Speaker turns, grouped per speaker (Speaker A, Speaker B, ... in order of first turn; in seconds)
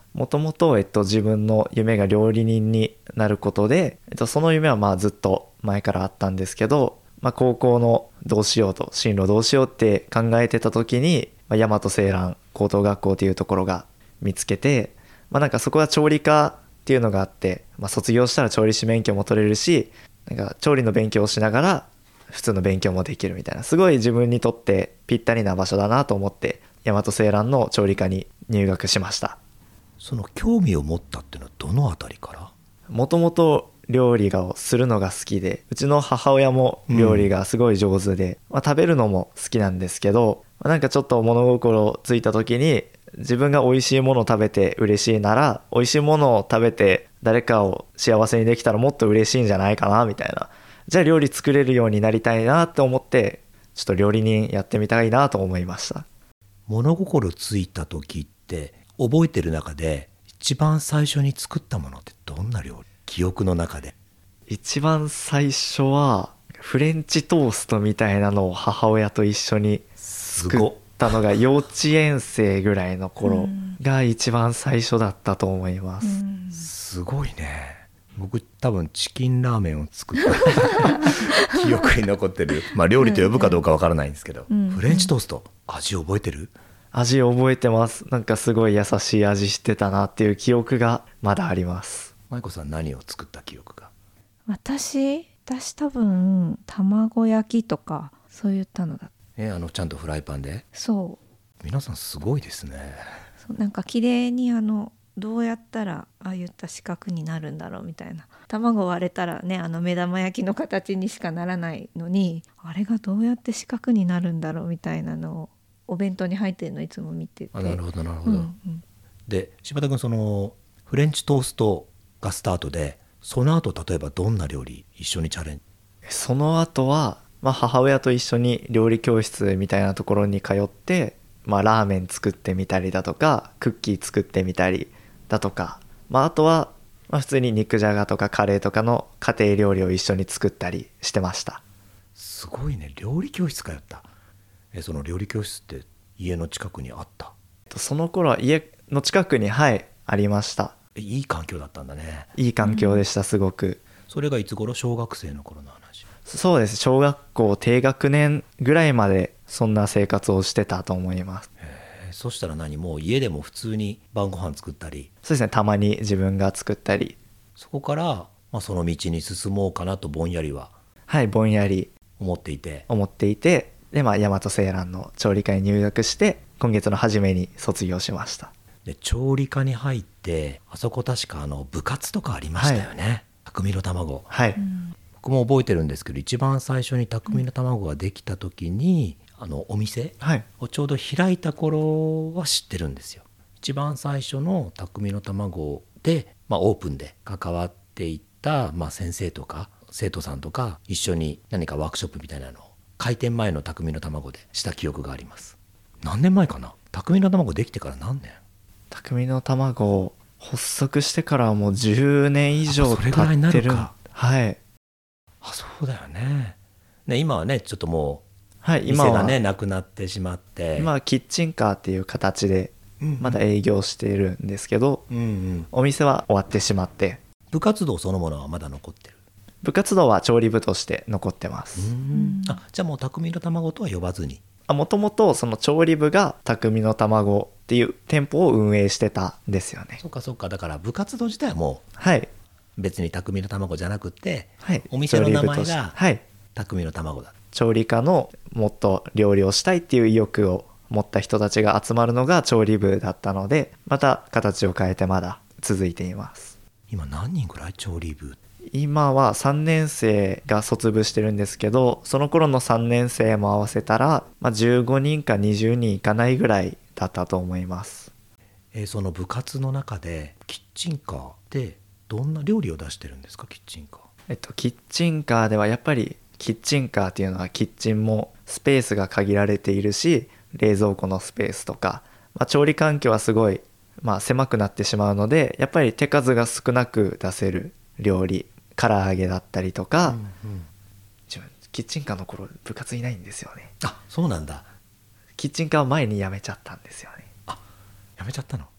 Speaker A: 0.1-29.4, 32.9-56.1, 64.5-76.2, 86.9-92.1, 126.1-141.6, 147.7-150.8, 152.4-153.8, 156.3-161.5, 165.2-167.2, 171.1-171.9, 172.9-178.5, 182.6-182.9, 184.3-184.6, 208.9-214.6, 218.6-219.4, 220.8-225.1, 225.7-227.2, 229.6-231.9, 234.7-240.0, 242.0-242.3, 244.6-246.2, 247.5-256.6, 258.7-268.1, 274.3-290.2, 291.3-293.7, 295.4-297.3
Speaker B: 30.0-32.5, 36.9-37.3, 56.7-63.9, 70.1-71.1, 76.5-86.5, 92.3-93.9, 99.4-100.6, 101.6-103.0, 117.5-118.5, 119.3-125.6, 142.2-144.1, 144.7-147.3, 150.9-152.3, 154.1-156.0, 161.6-165.1, 167.6-170.7, 172.2-172.9, 178.8-184.3, 185.2-208.4, 212.7-213.9, 215.4-218.2, 218.9-220.9, 223.0-223.4, 225.1-225.7, 227.5-229.2, 231.8-234.4, 240.0-241.8, 242.8-246.0, 246.6-247.3, 256.9-258.4, 268.7-274.1, 290.0-290.7, 293.8-294.7, 298.2-298.7
Speaker C: 73.2-73.8, 76.0-76.7, 80.8-81.3, 83.0-83.6, 84.5-85.1, 94.5-99.1, 100.7-101.2, 103.4-118.8, 152.6-153.0, 184.6-184.9, 232.1-232.6